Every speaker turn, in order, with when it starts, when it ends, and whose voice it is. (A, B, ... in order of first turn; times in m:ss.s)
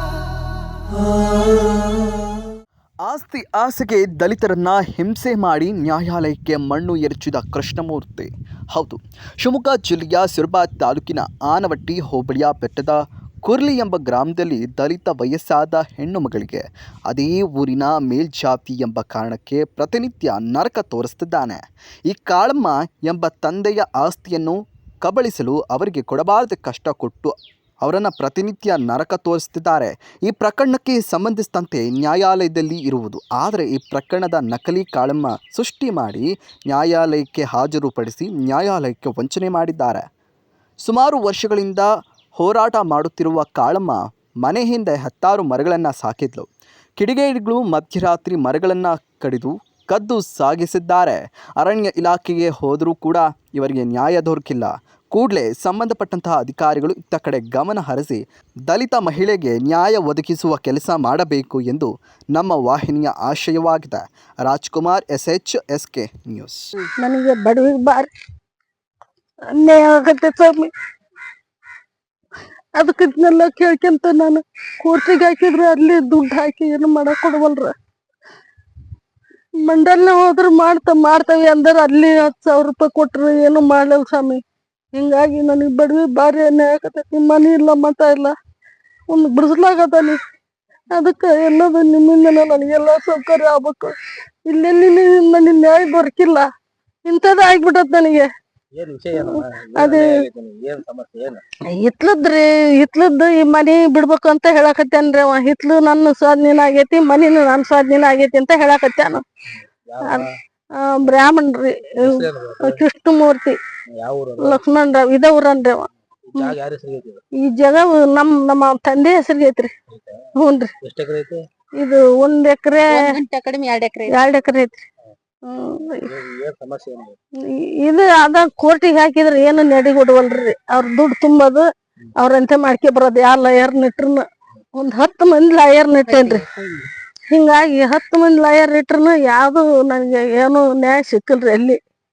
0:03.0-0:40.0 A
0:40.8-1:06.7 A
1:07.0-1:08.1 B
1:09.5-1:10.7 B
1:12.8-1:17.7 B
1:19.6-1:24.4 B
1:24.9-1:28.3 B
1:29.1-1:30.2 B
1:30.9-1:33.9 B
1:34.5-1:36.5 B
1:37.0-1:38.3 B
1:38.7-1:41.4 C
1:39.1-1:40.2 B
1:41.7-1:49.2 B
1:49.8-1:50.3 C
1:50.8-1:53.6 B
1:52.0-1:52.8 C
1:54.0-1:54.6 C
1:54.4-1:56.6 B
1:56.3-1:57.2 C
1:57.4-1:59.7 B
1:59.9-2:00.2 C
2:00.4-2:00.7 B
2:00.8-2:01.4 C
2:01.8-2:03.0 B
2:02.9-2:04.2 D
2:04.1-2:04.8 B
2:05.5-2:06.1 B
2:06.0-2:07.2 C
2:07.4-2:11.6 B
2:12.2-2:14.2 B
2:14.8-2:16.4 B
2:16.1-2:16.9 D
2:17.3-2:21.8 B